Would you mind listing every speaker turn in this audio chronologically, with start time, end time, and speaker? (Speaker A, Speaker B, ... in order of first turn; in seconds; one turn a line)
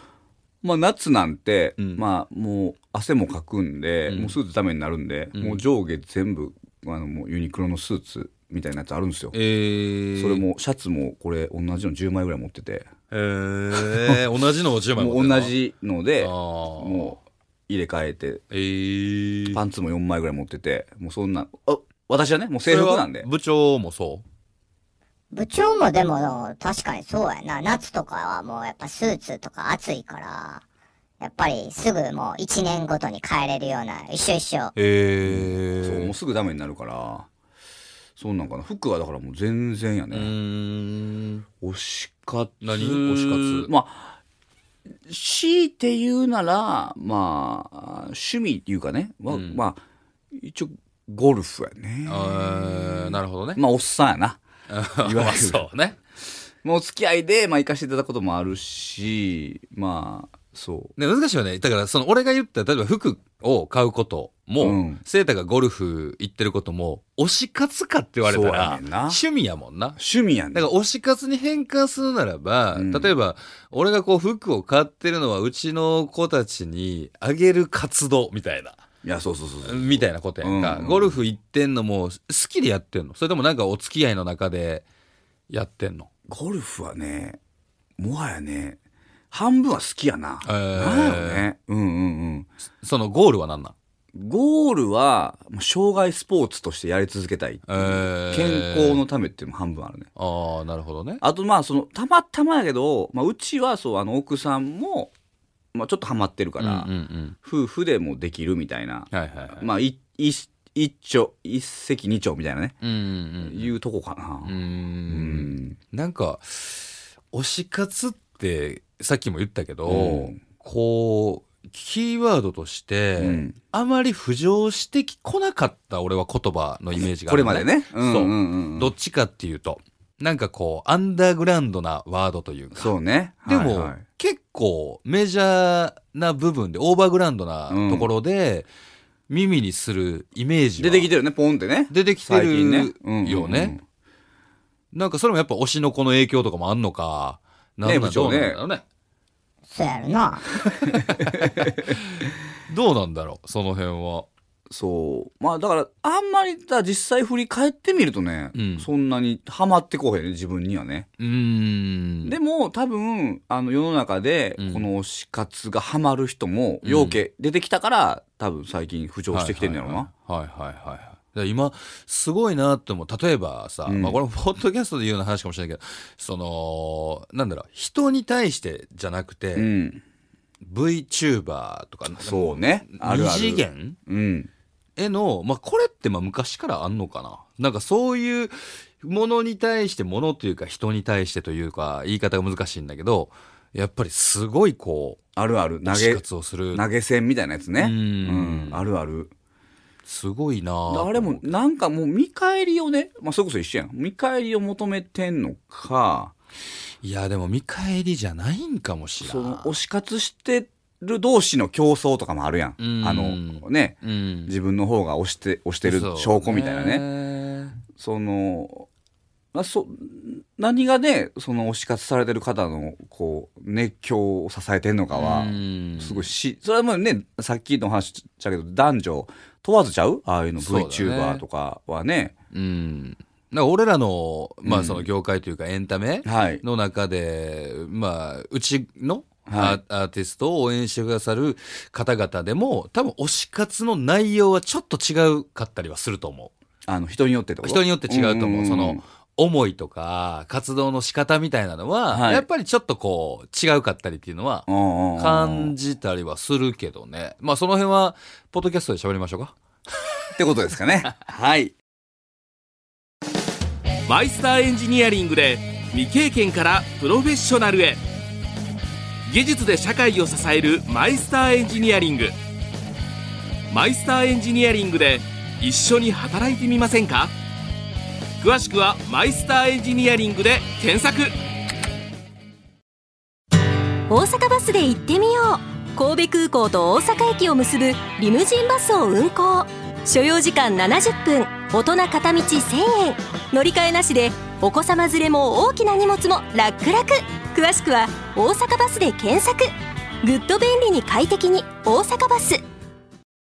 Speaker A: 0.6-9.3
Speaker B: 1.8-2.0
Speaker B: 4.1-4.4
Speaker B: 5.3-5.6
Speaker B: 9.3-10.4
Speaker A: 10.1-12.9
Speaker B: 13.1-15.5
Speaker A: 13.8-14.2
Speaker A: 14.9-18.4
Speaker B: 16.2-17.1
Speaker B: 18.5-19.6
Speaker A: 19.5-23.3
Speaker B: 22.6-24.2
Speaker C: 25.3-30.6
Speaker C: 31.2-34.7
Speaker B: 34.7-36.1
Speaker A: 35.2-37.3
Speaker A: 38.2-40.3
Speaker B: 40.1-41.4
Speaker A: 41.6-44.2
Speaker B: 42.6-43.7
Speaker A: 45.1-49.8
Speaker B: 49.3-49.6
Speaker A: 50.3-54.4
Speaker B: 52.1-53.6
Speaker B: 54.7-56.0
Speaker A: 55.0-55.7
Speaker A: 56.6-60.9
Speaker B: 61.0-70.0
Speaker A: 64.6-65.0
Speaker A: 68.2-69.2
Speaker A: 70.0-70.7
Speaker B: 70.5-78.8
Speaker A: 72.7-73.1
Speaker A: 79.0-81.2
Speaker B: 79.6-84.8
Speaker B: 85.5-86.1
Speaker A: 86.3-87.4
Speaker A: 88.0-88.8
Speaker A: 89.3-92.5
Speaker B: 90.4-91.4
Speaker B: 92.8-93.7
Speaker A: 94.1-100.1
Speaker B: 97.7-99.0
Speaker B: 100.2-101.2
Speaker A: 101.2-105.1
Speaker A: 105.7-106.9
Speaker B: 106.6-107.3
Speaker A: 107.4-112.8
Speaker B: 109.1-109.7
Speaker B: 112.8-113.7
Speaker A: 113.4-114.6
Speaker B: 114.5-132.9
Speaker A: 115.1-115.8
Speaker A: 119.8-120.4
Speaker A: 123.2-123.5
Speaker A: 127.0-128.9
Speaker A: 132.7-134.0
Speaker B: 133.4-138.7
Speaker A: 137.7-138.1
Speaker B: 139.3-141.1
Speaker A: 140.8-143.8
Speaker B: 141.9-143.8
Speaker B: 144.9-148.8
Speaker A: 147.8-148.6
Speaker C: 149.7-150.7
Speaker B: 151.1-151.9
Speaker A: 151.3-151.7
Speaker B: 152.7-154.3
Speaker A: 154.7-161.1
Speaker B: 158.5-158.9
Speaker B: 161.2-162.3
Speaker A: 162.2-170.1
Speaker B: 164.6-164.9
Speaker B: 166.8-167.2
Speaker B: 169.3-179.7
Speaker A: 173.8-174.2
Speaker A: 179.5-180.0
Speaker B: 180.6-184.0
Speaker A: 182.2-184.5
Speaker B: 185.0-195.2
Speaker A: 195.3-199.3
Speaker B: 195.8-196.8
Speaker B: 197.8-198.8
Speaker B: 200.0-201.4
Speaker A: 200.9-206.3
Speaker B: 207.0-209.7
Speaker A: 209.2-217.0
Speaker B: 212.8-214.5
Speaker B: 215.8-217.8
Speaker A: 217.9-218.9
Speaker A: 219.5-232.3
Speaker B: 225.1-226.3
Speaker B: 230.6-231.4
Speaker B: 232.5-246.5
Speaker A: 234.6-235.1
Speaker A: 236.2-236.6
Speaker A: 239.5-239.8
Speaker A: 246.9-249.0
Speaker B: 247.6-259.6
Speaker A: 252.1-252.5
Speaker A: 254.7-255.7
Speaker A: 260.4-261.8
Speaker D: 264.1-268.0
Speaker D: 269.2-272.4
Speaker D: 273.7-277.3
Speaker D: 278.4-281.3
Speaker E: 284.1-302.6